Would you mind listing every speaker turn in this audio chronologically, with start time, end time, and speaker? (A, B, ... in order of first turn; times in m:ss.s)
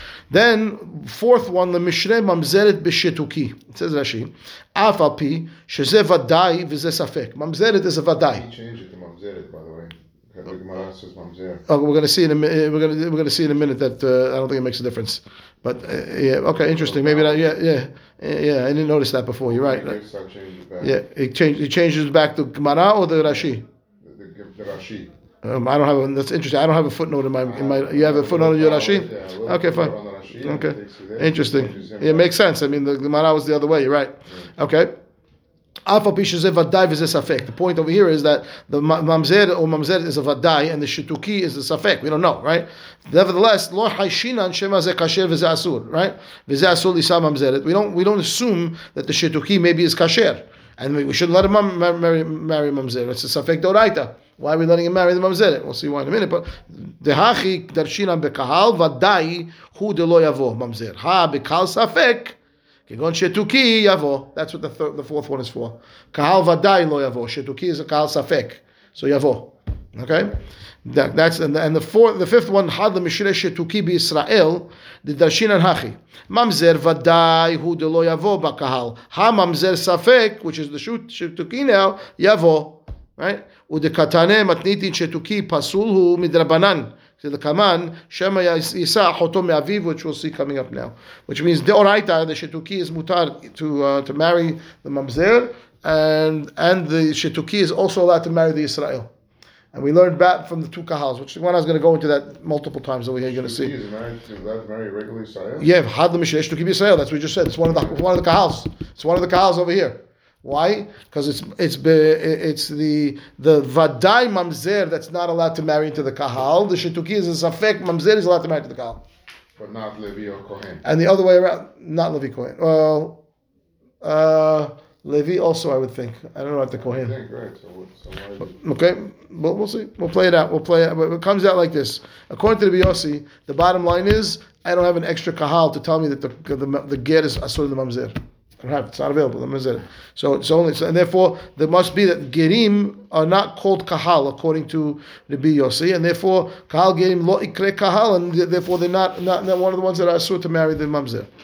0:00.3-0:08.4 A
0:08.2-0:11.6 B
0:11.7-0:20.0 A
0:16.5-0:17.6 B
0:19.4-0:21.0 B
0:20.8-0:23.6 A
0:24.0-0:25.1 B
0:25.4-0:34.9 A
0:27.4-0:32.3 B
0:34.3-0:34.5 B
0:35.8-1:10.3 A
1:10.8-1:39.1 A
1:39.7-1:43.7 A
1:43.2-1:45.7 B
1:45.6-1:59.0 A
1:47.7-1:48.0 B
1:59.6-2:00.8 B
2:00.8-2:03.2 A
2:04.0-2:07.1 A
2:06.8-2:08.5 B
2:08.4-2:31.3 A